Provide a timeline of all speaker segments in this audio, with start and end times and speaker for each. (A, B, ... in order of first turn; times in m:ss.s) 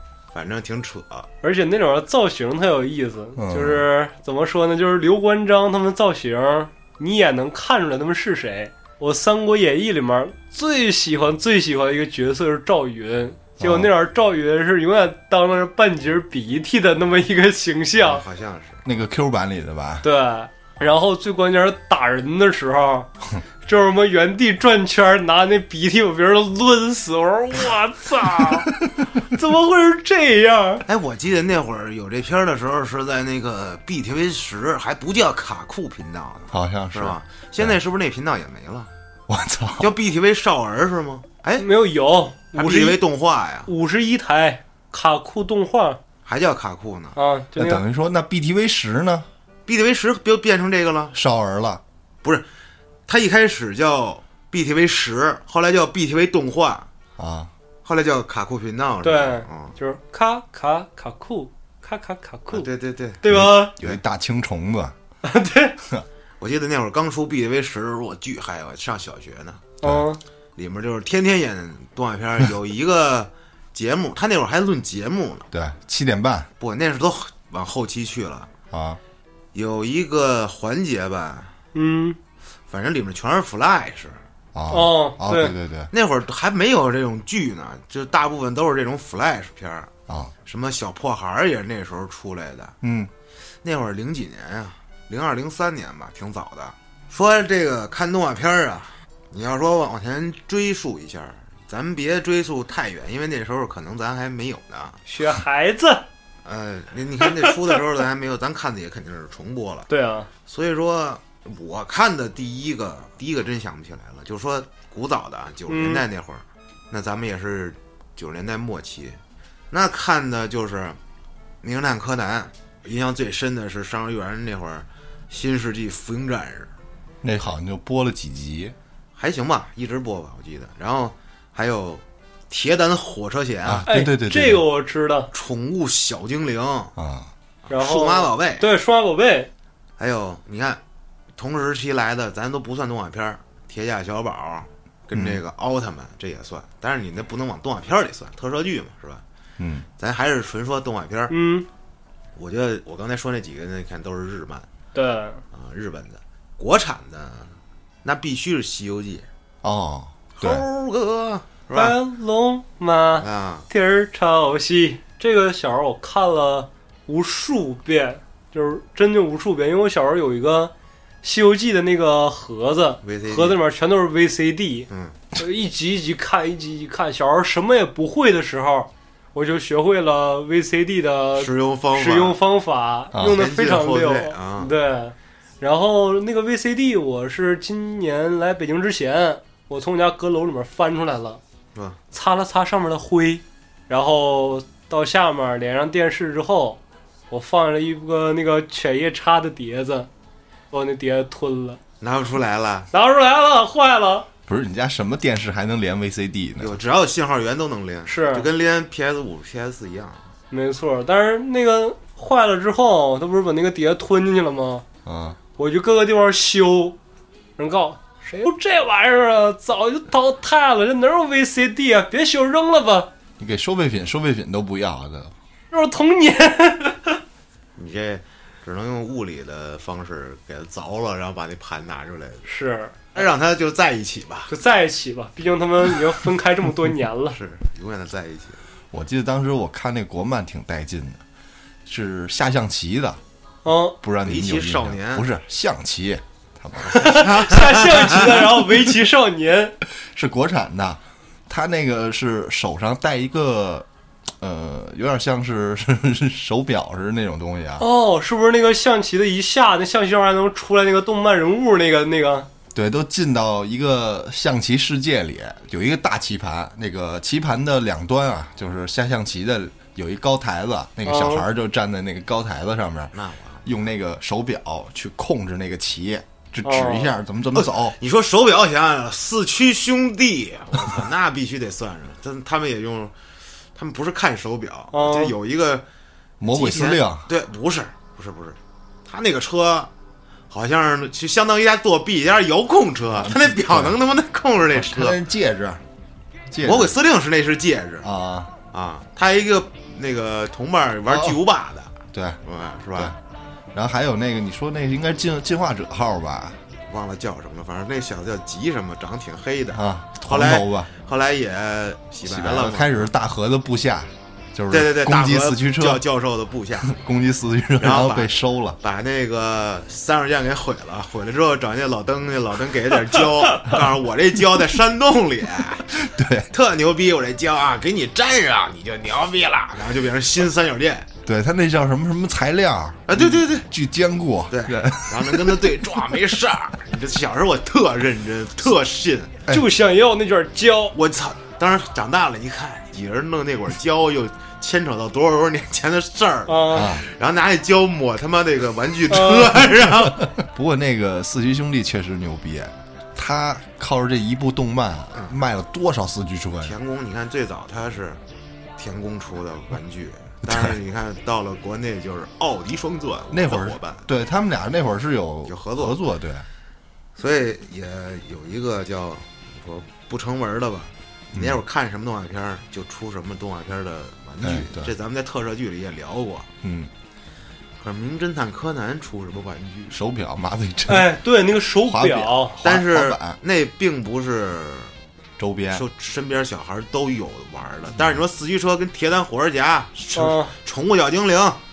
0:00.3-0:01.3 A
0:01.4-0:18.2 B
0:03.4-0:03.8 C
0:13.6-0:13.9 C
0:18.0-0:18.8 A
0:18.8-0:20.0 C
0:20.0-0:23.1 B
0:23.6-0:30.8 B
0:30.9-0:38.9 A
0:36.5-0:37.8 C
0:39.3-0:39.9 C
0:39.8-0:41.7 A
0:41.6-0:43.0 B
0:42.5-0:43.7 A
0:43.7-0:46.0 B
0:46.2-0:47.2 A
0:47.1-0:47.8 B
0:47.6-0:49.3 C
0:49.7-0:51.1 A
0:51.1-0:51.8 C
0:53.1-0:56.9 A
0:57.2-0:57.5 C
0:57.8-0:59.8 A
0:59.0-1:02.7 B
1:02.5-1:03.2 A
1:03.2-1:03.7 B
1:03.3-1:04.9 C
1:05.2-1:05.8 B
1:06.4-1:09.8 A
1:09.8-1:10.2 B
1:10.6-1:15.5 A
1:15.5-1:16.5 C
1:16.6-1:18.5 A
1:18.7-1:19.0 C
1:19.5-1:21.6 A
1:21.7-1:22.2 B
1:22.7-1:24.2 A
1:24.5-1:25.9 C
1:24.7-1:25.5 B
1:25.9-1:29.9 A
1:30.1-1:30.3 C
1:30.4-1:32.8 A
1:32.8-1:33.1 C
1:33.6-1:45.0 A
1:45.0-1:46.0 B
1:46.4-1:49.9 A
1:47.2-1:47.8 B
1:49.9-1:50.3 B
1:50.5-1:59.2 A
1:55.7-1:56.0 B
1:59.7-2:01.0 A
2:01.6-2:06.7 A
2:07.2-2:08.8 C
2:09.2-2:13.9 A
2:13.6-2:14.6 C
2:13.8-2:15.3 B
2:15.3-2:16.9 A
2:17.0-2:17.3 C
2:17.6-2:18.7 A
2:17.7-2:19.5 B
2:20.0-2:20.8 A
2:21.4-2:29.2 A
2:25.1-2:25.4 C
2:29.6-2:29.9 C
2:30.0-2:31.3 A
2:31.3-2:31.7 B
2:32.4-2:34.7 A
2:34.9-2:35.4 B
2:35.5-2:39.3 A
2:39.6-2:40.6 C
2:40.4-2:42.0 A
2:41.7-2:50.7 B
2:43.2-2:43.7 A
2:51.2-3:11.4 B
2:53.0-2:53.6 A
2:54.9-2:55.2 A
3:01.4-3:02.4 A
3:03.1-3:03.4 C
3:03.2-3:04.7 A
3:12.1-3:20.1 B
3:20.7-3:21.8 B
3:22.0-3:22.9 A
3:22.9-3:24.3 B
3:24.5-3:26.8 C
3:26.6-3:30.2 A
3:28.1-3:28.5 B
3:30.5-3:34.8 B
3:35.0-3:35.4 C
3:35.6-3:37.0 B
3:37.6-3:43.1 B
3:43.4-3:45.3 C
3:45.7-3:47.2 B
3:47.8-3:52.4 A
3:52.4-3:53.0 B
3:53.1-3:54.5 A
3:54.5-3:57.4 B
3:57.3-3:58.6 A
3:58.9-4:01.2 C
4:01.8-4:03.2 C
4:03.6-4:04.0 B
4:04.0-4:07.2 C
4:04.2-4:05.3 A
4:06.8-4:09.7 B
4:07.0-4:08.5 A
4:09.9-4:13.9 C
4:14.4-4:17.8 C
4:17.8-4:22.5 B
4:22.7-4:37.9 C
4:31.0-4:31.4 B
4:33.1-4:33.7 A
4:36.6-4:37.1 B
4:37.5-4:43.1 A
4:43.7-4:45.8 A
4:44.9-4:45.3 B
4:46.4-4:47.3 C
4:46.4-4:49.9 A
4:50.5-4:55.2 A
4:53.2-4:54.0 C
4:54.7-4:55.8 C
4:56.5-4:57.0 C
4:56.6-4:58.1 A
4:58.0-4:58.5 C
4:58.7-5:03.1 A
5:01.1-5:01.4 C
5:02.1-5:02.4 C
5:03.7-5:06.6 C
5:06.9-5:13.1 A
5:09.7-5:10.9 C
5:12.2-5:16.0 C
5:14.7-5:16.9 A
5:16.8-5:18.8 C
5:17.8-5:25.9 A
5:25.9-5:26.5 C
5:26.5-5:31.1 A
5:31.2-5:36.2 C
5:33.1-5:33.7 A
5:34.5-5:39.4 A
5:39.5-5:41.0 B
5:40.9-5:50.3 A
5:46.5-5:47.0 B
5:46.7-5:47.0 C
5:49.1-5:49.5 B
5:50.2-5:56.8 C
5:56.6-5:58.2 A
5:58.8-6:04.1 A
6:03.3-6:06.5 C
6:05.4-6:06.0 A
6:07.2-6:16.5 A
6:11.3-6:11.6 C
6:14.4-6:14.9 C
6:16.6-6:16.9 C
6:17.8-6:20.0 A
6:19.9-6:21.1 C
6:20.9-6:22.6 B
6:21.8-6:23.4 C
6:22.6-6:24.9 A
6:25.4-6:25.8 C
6:25.7-6:31.6 A
6:30.1-6:30.5 B